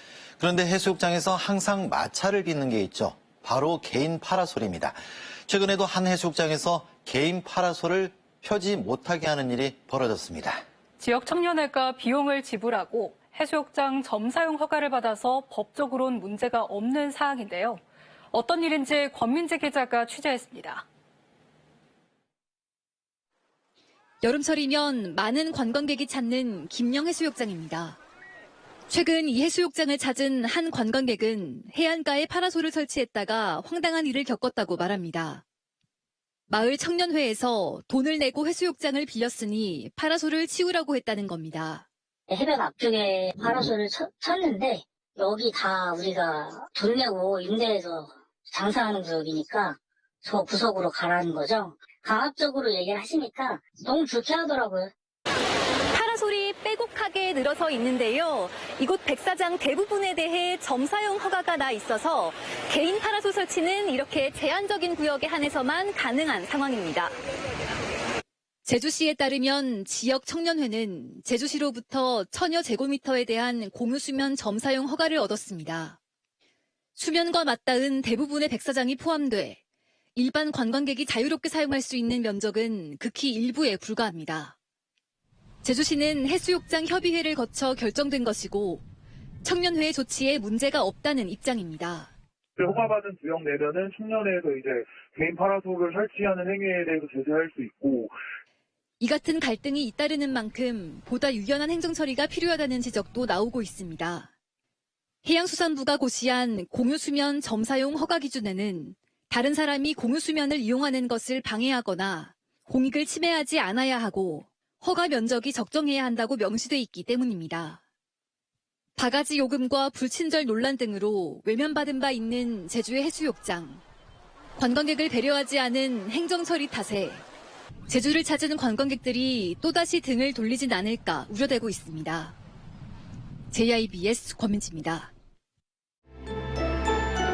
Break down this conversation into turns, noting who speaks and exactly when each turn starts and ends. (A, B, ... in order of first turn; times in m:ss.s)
0:00.4-0:10.6 A
0:11.0-0:17.8 B
0:18.3-0:20.8 B
0:24.2-0:28.0 C
0:28.9-0:35.4 C
0:36.5-0:41.8 C
0:42.3-0:54.9 D
0:55.9-1:07.1 C
1:08.6-1:16.0 C
1:17.0-1:19.6 C
1:20.1-1:24.5 C
1:25.6-1:28.8 C
1:29.4-1:32.1 C
1:32.6-1:38.2 E
1:39.0-1:44.3 C
1:45.2-1:57.8 C
1:59.0-2:03.8 C
2:04.6-2:07.2 C
2:07.9-2:12.4 C
2:13.5-2:15.1 C